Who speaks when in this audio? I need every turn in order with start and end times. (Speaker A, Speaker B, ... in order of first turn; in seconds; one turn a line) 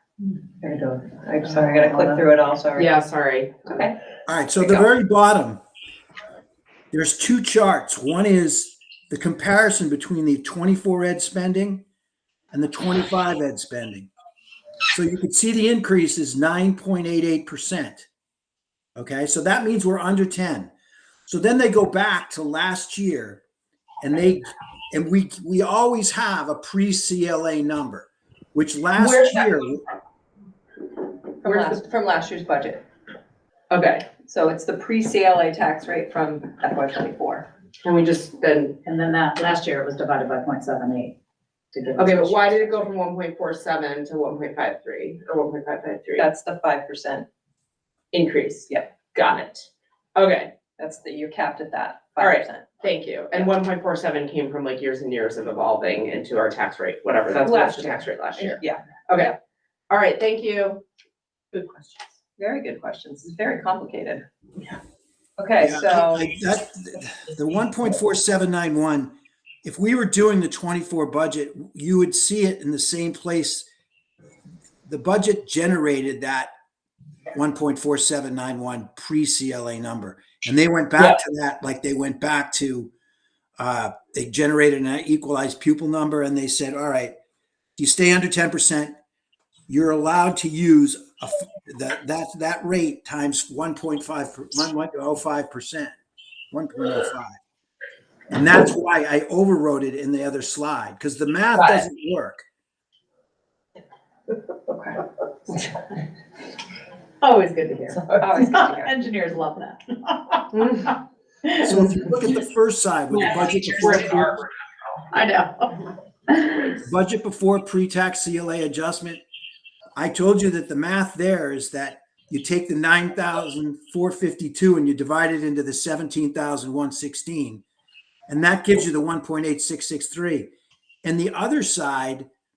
Speaker A: 0.4-2.9
Speaker B: 1.8-2.1
Speaker B: 2.8-3.8
Speaker A: 3.7-4.0
Speaker C: 4.3-5.6
Speaker C: 6.9-11.8
Speaker C: 12.5-14.1
Speaker C: 14.9-18.1
Speaker C: 19.0-20.7
Speaker C: 21.3-23.4
Speaker C: 24.0-29.9
Speaker B: 29.0-29.5
Speaker A: 31.4-32.8
Speaker B: 31.4-31.8
Speaker B: 33.7-34.1
Speaker A: 34.2-37.5
Speaker B: 37.8-38.8
Speaker D: 38.9-41.1
Speaker D: 41.7-42.9
Speaker B: 42.0-46.3
Speaker A: 46.2-47.2
Speaker B: 48.1-50.5
Speaker A: 50.8-52.6
Speaker B: 52.2-59.3
Speaker A: 57.4-58.8
Speaker B: 59.9-60.8
Speaker B: 61.5-61.9
Speaker A: 62.4-64.7
Speaker A: 65.4-66.3
Speaker C: 65.6-73.7
Speaker C: 74.8-76.5
Speaker C: 77.3-82.9
Speaker C: 83.6-87.2
Speaker C: 87.8-89.0
Speaker C: 89.7-95.9
Speaker C: 96.5-97.4
Speaker C: 98.3-102.4
Speaker A: 104.7-105.7
Speaker D: 107.2-110.9
Speaker A: 108.0-108.9
Speaker D: 111.5-111.8
Speaker C: 111.6-114.3
Speaker B: 113.1-114.5
Speaker D: 115.1-116.8
Speaker C: 116.8-119.2
Speaker C: 120.0-127.6
Speaker C: 128.3-130.5
Speaker C: 131.0-132.3